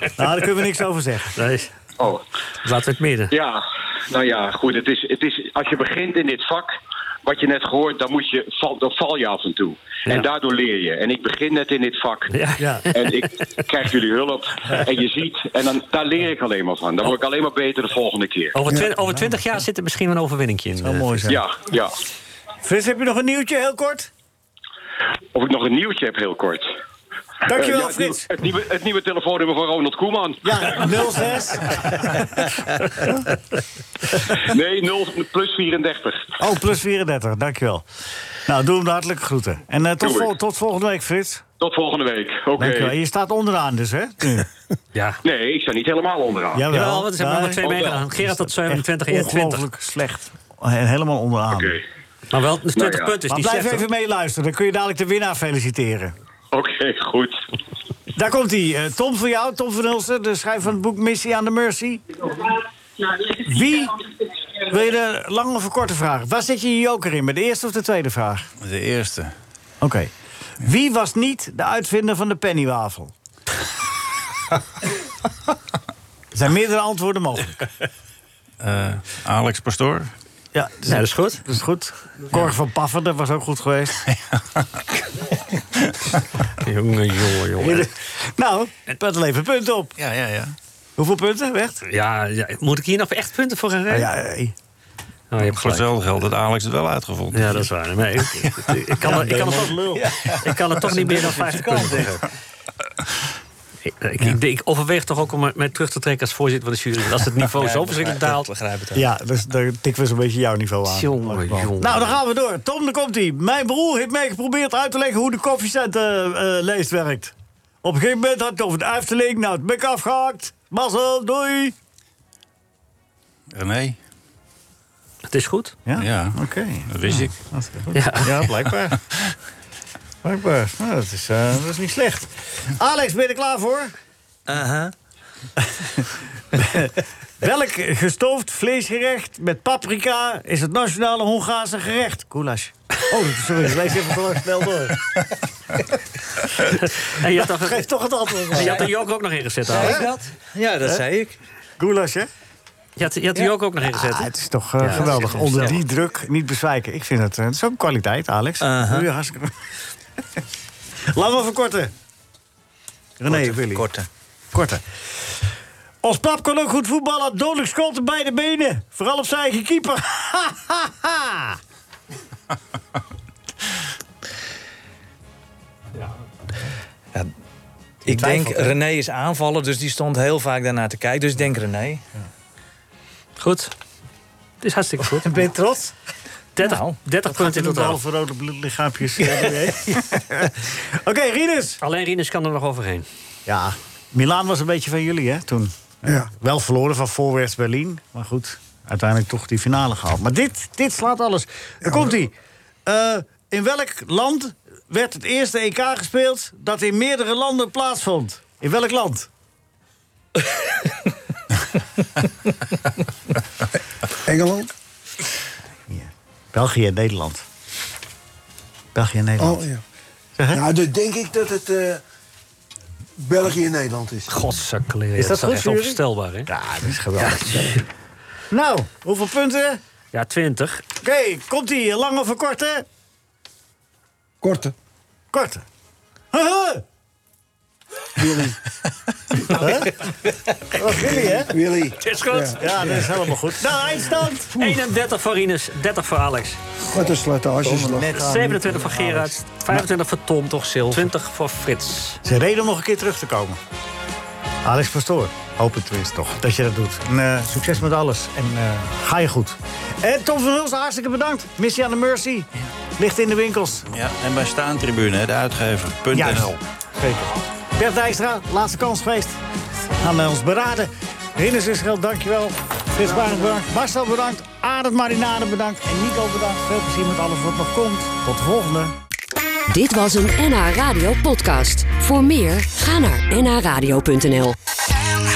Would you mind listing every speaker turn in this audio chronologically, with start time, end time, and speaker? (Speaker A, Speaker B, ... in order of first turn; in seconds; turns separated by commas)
Speaker A: 0.2-1.3, Speaker B: 1.3-1.7, Speaker B: 2.6-3.3, Speaker C: 3.3-6.7, Speaker C: 7.2-12.3, Speaker B: 12.3-13.2, Speaker A: 12.6-12.8, Speaker C: 12.9-18.6, Speaker B: 18.6-21.4, Speaker A: 19.0-19.4, Speaker A: 20.8-21.4, Speaker C: 21.3-22.0, Speaker A: 22.6-24.1, Speaker C: 25.3-26.7, Speaker A: 27.5-28.3, Speaker C: 27.5-31.2, Speaker A: 30.4-33.3, Speaker C: 34.3-36.4, Speaker A: 36.4-37.9, Speaker A: 38.5-41.4, Speaker C: 40.0-40.4, Speaker C: 41.6-43.0, Speaker A: 42.6-44.5, Speaker B: 45.0-45.2, Speaker C: 45.2-46.7, Speaker A: 46.5-51.8, Speaker B: 46.7-49.6, Speaker C: 47.6-48.0, Speaker C: 51.5-51.8, Speaker B: 52.3-53.9, Speaker C: 52.8-53.2, Speaker A: 53.3-56.1, Speaker C: 56.5-57.4, Speaker A: 58.2-62.0, Speaker A: 63.3-64.0, Speaker A: 64.6-68.5, Speaker D: 68.6-69.3, Speaker A: 69.8-73.1, Speaker A: 76.3-77.7, Speaker D: 78.6-80.1, Speaker A: 80.5-84.0, Speaker B: 80.8-81.4, Speaker B: 86.6-87.9, Speaker A: 87.6-90.0, Speaker D: 90.0-90.5, Speaker A: 91.0-91.8, Speaker B: 91.9-94.1, Speaker A: 93.9-94.5, Speaker B: 95.3-95.9, Speaker D: 95.4-97.7, Speaker B: 97.3-102.3, Speaker A: 99.0-100.2, Speaker E: 101.0-102.1, Speaker A: 101.1-102.0, Speaker B: 103.8-108.5, Speaker E: 107.6-109.1, Speaker A: 109.0-121.8, Speaker B: 110.9-112.2, Speaker D: 123.5-124.0, Speaker B: 125.3-125.8, Speaker A: 125.9-129.1, Speaker D: 125.9-127.3, Speaker B: 127.9-128.4, Speaker A: 130.2-133.9, Speaker E: 134.5-134.9, Speaker A: 135.6-145.2, Speaker A: 146.6-148.9, Speaker B: 146.8-147.9, Speaker B: 148.5-150.2, Speaker E: 149.7-151.4, Speaker A: 149.7-150.1, Speaker A: 151.8-152.3, Speaker B: 153.0-155.8, Speaker A: 153.8-159.6, Speaker E: 158.6-159.1, Speaker A: 161.1-161.9, Speaker A: 163.2-163.9, Speaker E: 163.3-164.1, Speaker A: 164.5-164.8, Speaker A: 166.0-171.6, Speaker E: 178.1-182.0, Speaker A: 178.1-178.8, Speaker B: 183.4-183.7, Speaker B: 184.6-185.4, Speaker A: 185.0-185.9, Speaker B: 186.6-188.0, Speaker E: 186.6-187.0, Speaker A: 187.3-191.8, Speaker B: 189.3-190.0, Speaker B: 191.8-193.1, Speaker A: 193.5-202.3, Speaker F: 196.1-196.3, Speaker F: 201.8-202.2, Speaker A: 202.9-209.3, Speaker F: 214.2-214.7, Speaker A: 215.9-217.4, Speaker A: 218.9-219.6, Speaker F: 219.4-219.8, Speaker A: 220.4-220.6, Speaker F: 220.5-222.0, Speaker F: 223.2-224.3, Speaker B: 224.3-226.5, Speaker A: 225.2-227.8, Speaker B: 227.2-227.8, Speaker A: 228.5-229.8, Speaker B: 230.1-230.8, Speaker A: 231.0-232.8, Speaker F: 234.4-234.8, Speaker A: 235.3-235.7, Speaker A: 236.3-236.8, Speaker F: 238.2-238.6, Speaker A: 239.4-240.1, Speaker A: 240.7-241.6, Speaker F: 241.3-242.6, Speaker B: 242.0-243.2, Speaker A: 242.6-244.8, Speaker B: 244.5-246.6, Speaker F: 246.9-248.2, Speaker A: 247.6-249.8, Speaker B: 248.1-252.2, Speaker E: 250.5-251.1, Speaker A: 252.2-253.6, Speaker A: 254.7-263.9, Speaker D: 263.9-266.6, Speaker A: 266.1-269.4, Speaker A: 270.0-278.9, Speaker G: 279.7-284.6